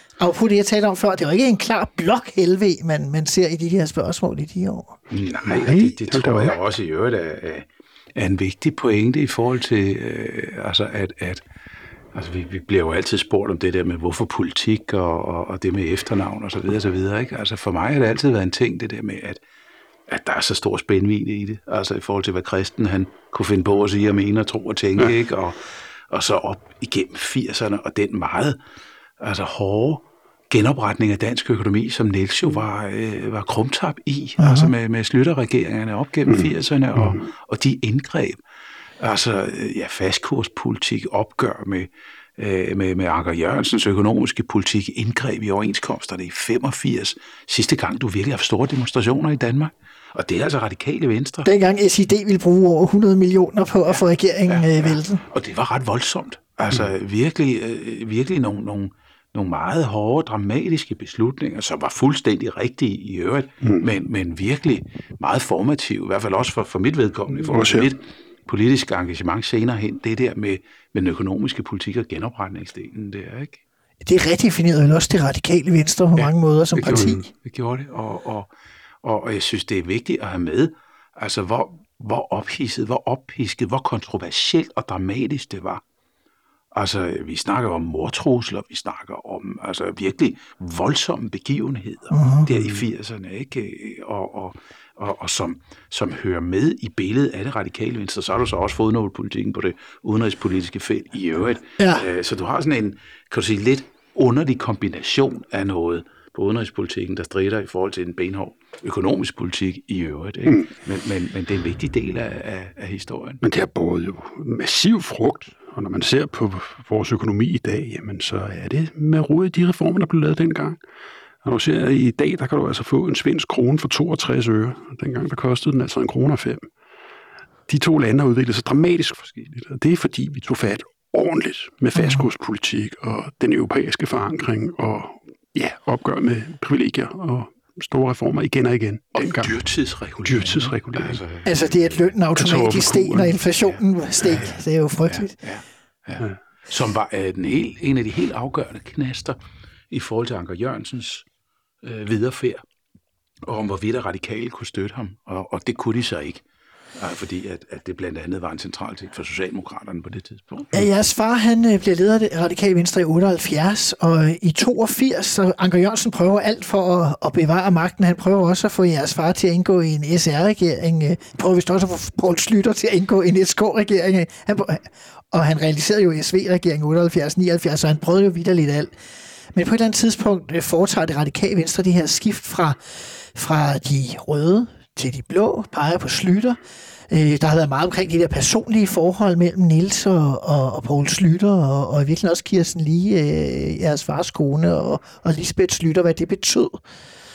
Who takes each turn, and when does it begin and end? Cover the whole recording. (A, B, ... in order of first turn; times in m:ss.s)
0:00.2-0:04.9 A
0:05.1-0:11.4 B
0:05.4-0:06.6 C
0:12.1-0:19.4 B
0:20.1-0:28.6 B
0:29.2-0:38.4 B
0:34.4-0:34.7 A
0:36.9-0:37.2 C
0:39.0-0:51.5 B
0:51.4-0:55.2 A
0:53.9-1:13.6 B
1:07.3-1:07.9 C
1:14.0-1:17.2 A
1:16.2-1:18.5 B
1:16.9-1:17.2 C
1:19.0-1:25.8 B
1:26.7-1:53.4 B
1:32.1-1:32.4 A
1:41.8-1:42.0 A
1:53.4-2:00.8 C
2:01.4-2:06.7 C
2:07.7-2:19.5 C
2:19.1-2:22.1 B
2:20.2-2:21.2 C
2:21.4-2:25.3 A
2:22.4-2:23.4 C
2:23.6-2:29.4 B
2:29.9-2:31.2 B
2:31.8-2:32.6 B
2:33.4-2:36.4 B
2:37.0-2:40.8 B
2:40.7-2:58.9 A
2:59.5-3:06.6 A
3:07.1-3:16.8 A